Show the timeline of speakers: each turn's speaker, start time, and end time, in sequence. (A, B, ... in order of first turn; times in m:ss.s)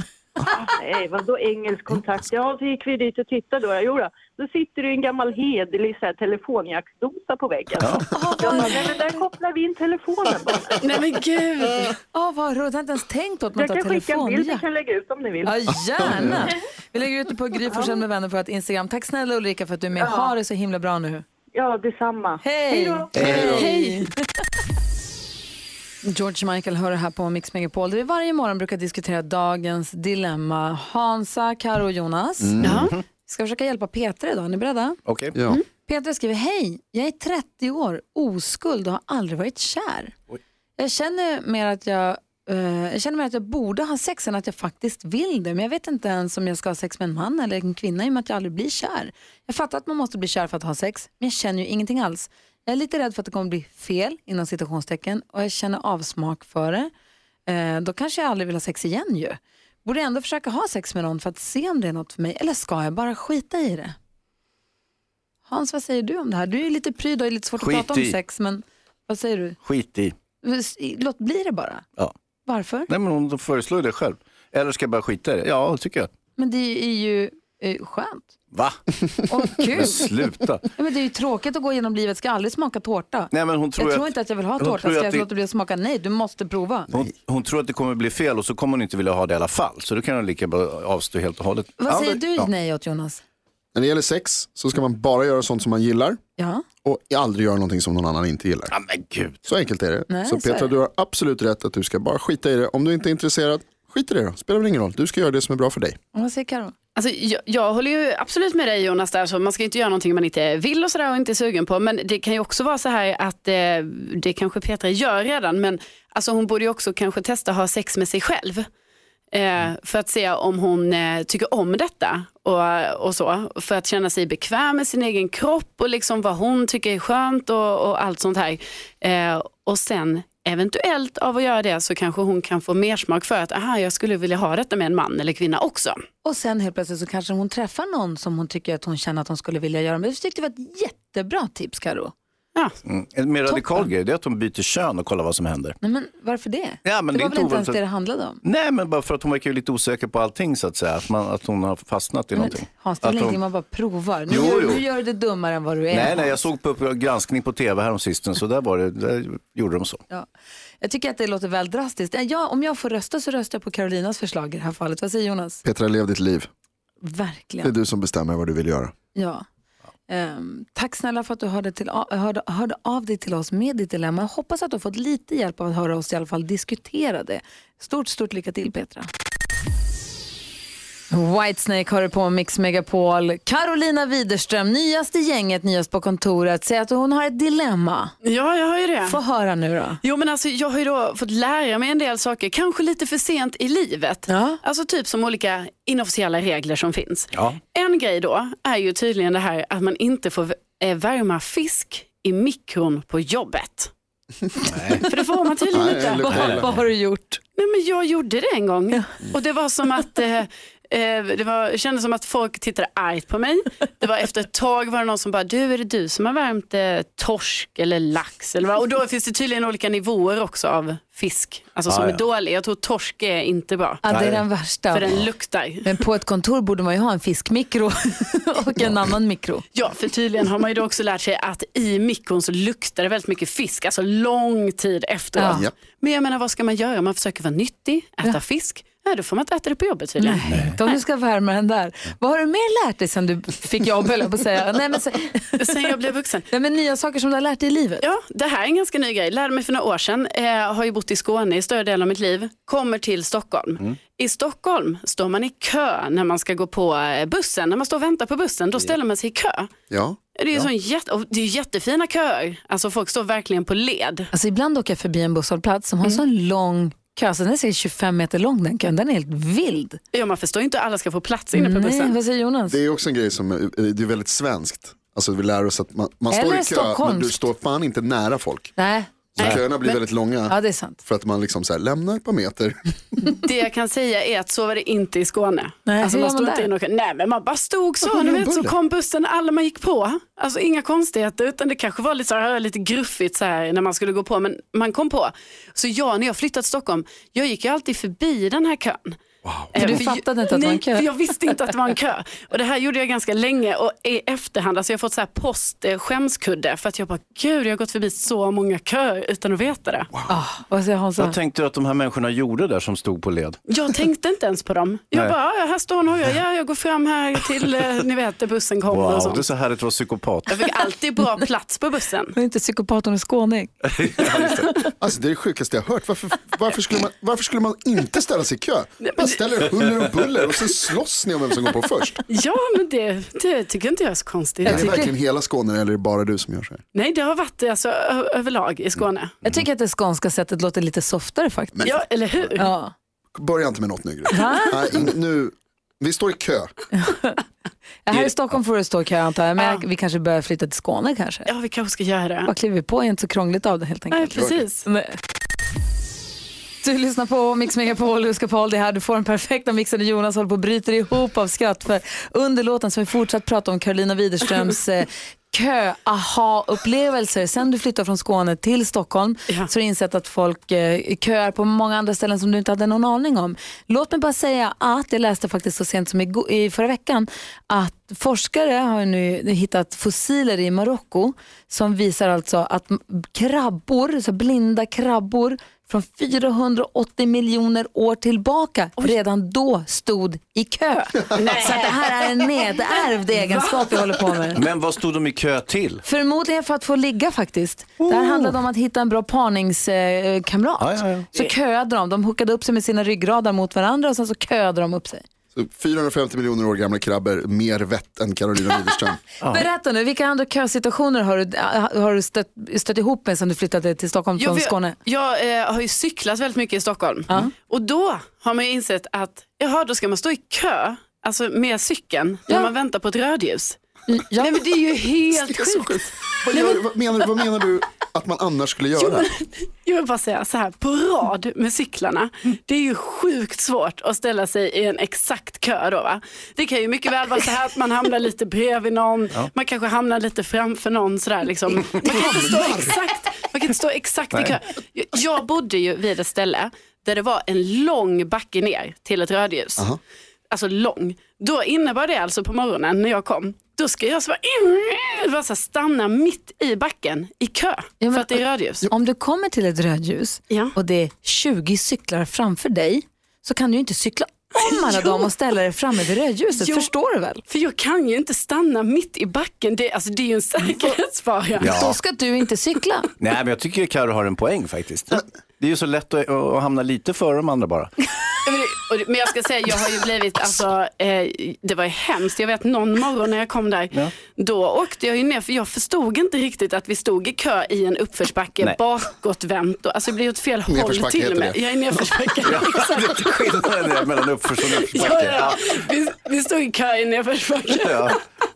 0:00.4-0:10.8 A
0:08.1-0:09.2 B
0:10.8-0:12.0 C
0:12.1-0:14.6 B
0:13.6-0:15.6 A
0:15.4-0:21.2 B
0:17.7-0:18.0 A
0:20.0-0:20.3 A
0:21.5-0:23.1 A
0:22.4-0:24.1 B
0:23.1-0:23.7 D
0:23.5-0:24.1 C
0:26.0-0:32.6 B
0:32.4-0:32.9 E
0:32.6-0:32.9 C
0:33.3-0:35.0 B
0:35.1-0:35.4 D
0:35.4-0:35.6 E
0:35.7-0:40.1 B
0:40.8-0:56.9 B
0:57.5-1:04.0 B
1:05.5-1:09.6 B
1:07.6-1:08.2 D
1:09.6-1:10.2 D
1:10.4-1:11.8 B
1:12.4-1:12.9 B
1:12.9-1:16.1 D
1:16.4-1:18.4 B
1:18.5-1:18.8 D
1:19.3-1:20.1 B
1:19.6-1:20.6 D
1:20.8-1:26.9 B
1:23.3-1:25.3 D
1:26.9-1:32.5 D
1:31.8-1:33.2 B
1:33.8-1:36.2 E
1:36.4-1:36.6 B
1:36.8-1:38.7 E
1:38.7-1:39.4 D
1:39.5-1:46.0 E
1:40.1-1:40.7 B
1:46.1-1:46.7 B
1:47.0-1:58.6 C
1:59.3-2:16.0 C
2:16.2-2:22.1 B
2:22.9-2:25.8 D
2:23.5-2:23.9 B
2:25.8-2:28.4 B
2:26.8-2:27.8 D
2:28.4-2:33.4 D
2:32.4-2:36.4 B
2:34.3-2:34.8 D
2:35.9-2:40.0 D
2:40.8-2:45.6 B
2:45.6-2:46.5 E
2:47.0-2:47.7 B
2:47.6-2:48.9 E
2:49.2-2:49.4 B
2:50.1-2:59.1 B
3:01.1-3:08.2 B
3:08.2-3:09.2 C
3:09.0-3:10.0 B
3:10.0-3:23.9 C
3:14.3-3:14.6 B
3:17.3-3:17.6 D
3:24.7-3:25.0 D
3:25.1-3:26.3 C
3:25.7-3:26.7 E
3:26.1-3:27.4 B
3:27.6-3:44.0 C
3:41.9-3:42.2 D
3:44.0-3:45.2 B
3:44.1-3:44.5 D
3:44.9-3:46.0 C
3:45.8-3:49.6 B
3:49.7-4:00.4 C
3:55.4-3:55.7 B
3:55.5-3:55.7 E
4:00.2-4:05.6 B
4:05.6-4:06.5 C
4:06.5-4:08.0 B
4:08.0-4:19.7 C
4:19.9-4:20.2 E
4:20.4-4:24.3 C
4:24.3-4:30.0 B
4:30.1-4:32.2 C
4:31.5-4:32.8 B
4:32.7-4:38.8 E
4:36.3-4:37.5 B
4:38.8-4:41.0 B
4:39.4-4:42.8 E
4:43.4-4:59.2 C
4:45.9-4:46.7 B
4:48.0-4:48.7 E
4:59.5-4:59.7 D
4:59.7-5:10.1 C
4:59.8-5:01.1 B
5:10.3-5:11.4 B
5:11.2-5:13.6 D
5:13.7-5:19.5 C
5:18.9-5:20.5 D
5:20.5-5:22.3 C
5:22.3-5:24.5 B
5:24.0-5:24.7 D
5:25.0-5:32.2 E
5:29.0-5:29.4 C
5:32.3-5:35.1 C
5:34.6-5:36.8 E
5:34.7-5:35.1 B
5:36.9-5:39.4 C
5:39.4-5:42.0 B
5:41.8-5:42.0 E
5:41.8-5:42.7 C
5:42.6-5:42.9 B
5:43.4-5:46.7 E
5:44.3-5:44.8 B
5:46.9-5:47.4 B
5:48.1-5:51.5 B
5:51.5-5:52.5 C
5:52.5-5:55.2 B
5:54.1-5:54.8 C
5:54.4-5:54.6 E
5:56.8-6:34.6 B
6:31.3-6:34.3 C
6:34.6-6:36.0 D
6:36.0-6:45.2 B
6:38.0-6:38.6 D
6:40.8-6:41.2 D
6:45.6-6:49.2 E
6:49.4-6:49.7 D
6:49.5-6:55.0 B
6:54.4-7:03.8 C
7:04.1-7:05.9 B
7:04.4-7:05.9 C
7:05.4-7:09.3 E
7:06.5-7:06.8 C
7:09.0-7:29.9 C
7:22.3-7:22.7 E
7:30.5-7:38.9 C
7:38.0-7:47.4 B
7:44.6-7:45.3 C
7:46.6-7:46.9 C
7:47.5-7:51.8 C
7:51.6-7:52.0 D
7:51.6-7:53.1 B
7:53.2-7:58.0 D
7:58.4-8:14.0 C
8:10.7-8:11.6 E
8:12.4-8:15.7 D
8:14.6-8:18.2 C
8:17.7-8:18.2 D